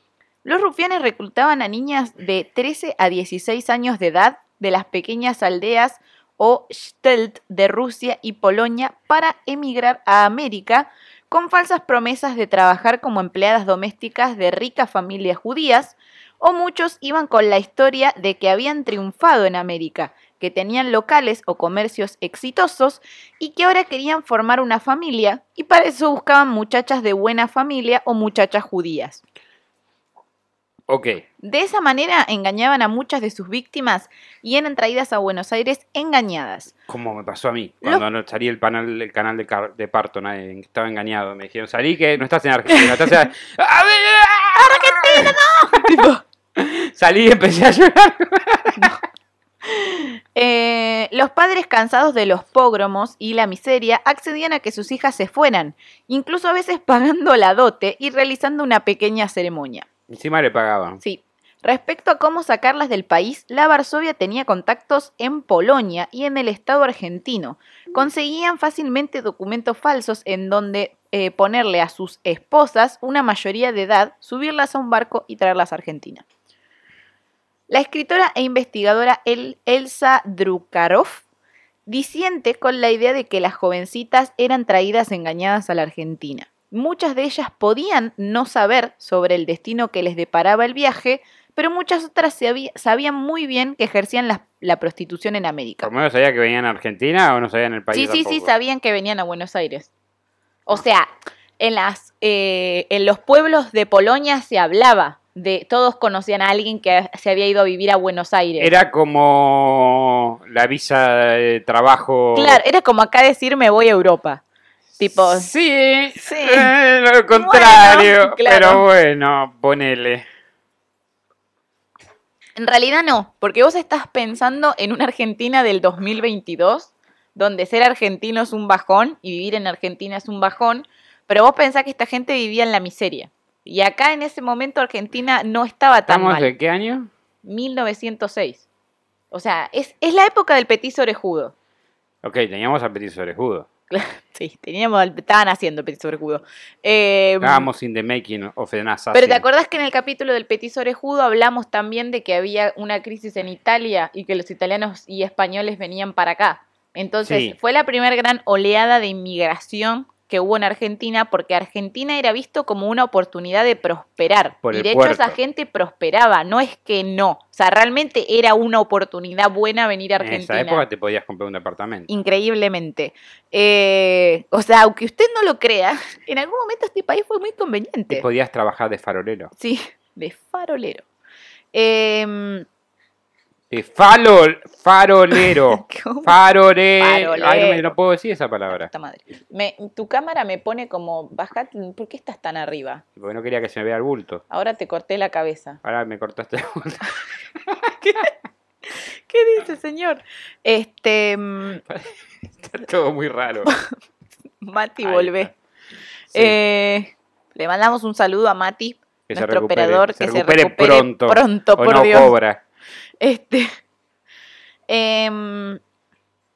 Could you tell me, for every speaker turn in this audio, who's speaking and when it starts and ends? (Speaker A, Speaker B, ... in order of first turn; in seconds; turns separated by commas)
Speaker A: 0.4-29.2, Speaker B: 30.9-31.2, Speaker A: 31.4-36.7, Speaker B: 36.9-46.0, Speaker A: 44.6-46.2, Speaker B: 46.5-49.0, Speaker A: 49.6-59.9, Speaker B: 60.1-61.0, Speaker A: 61.0-76.2, Speaker A: 77.7-81.2, Speaker A: 81.8-95.9, Speaker B: 95.8-98.5, Speaker A: 97.9-99.9, Speaker A: 100.7-108.7, Speaker B: 108.6-112.6, Speaker A: 112.3-114.4, Speaker A: 115.0-115.5, Speaker B: 115.1-120.2, Speaker A: 116.2-116.7, Speaker A: 117.3-118.8, Speaker A: 122.5-136.5, Speaker B: 136.1-137.1, Speaker A: 137.4-138.6, Speaker A: 139.3-141.5, Speaker B: 142.2-143.7, Speaker A: 143.9-147.7, Speaker B: 147.4-149.4, Speaker A: 149.1-170.8, Speaker B: 157.2-157.6, Speaker B: 164.6-165.3, Speaker B: 170.2-172.1, Speaker A: 172.1-178.2, Speaker B: 178.1-179.5, Speaker A: 179.6-181.0, Speaker A: 181.7-182.7, Speaker B: 183.7-188.9, Speaker A: 185.3-186.3, Speaker A: 187.0-187.9, Speaker A: 188.9-193.0, Speaker B: 193.2-194.4, Speaker A: 194.5-195.8, Speaker B: 195.8-197.2, Speaker A: 197.8-198.3, Speaker A: 198.9-201.8, Speaker B: 201.9-203.7, Speaker A: 204.6-205.5, Speaker B: 205.0-205.5, Speaker A: 206.3-212.3, Speaker B: 209.3-212.6, Speaker A: 213.2-213.7, Speaker A: 214.9-215.8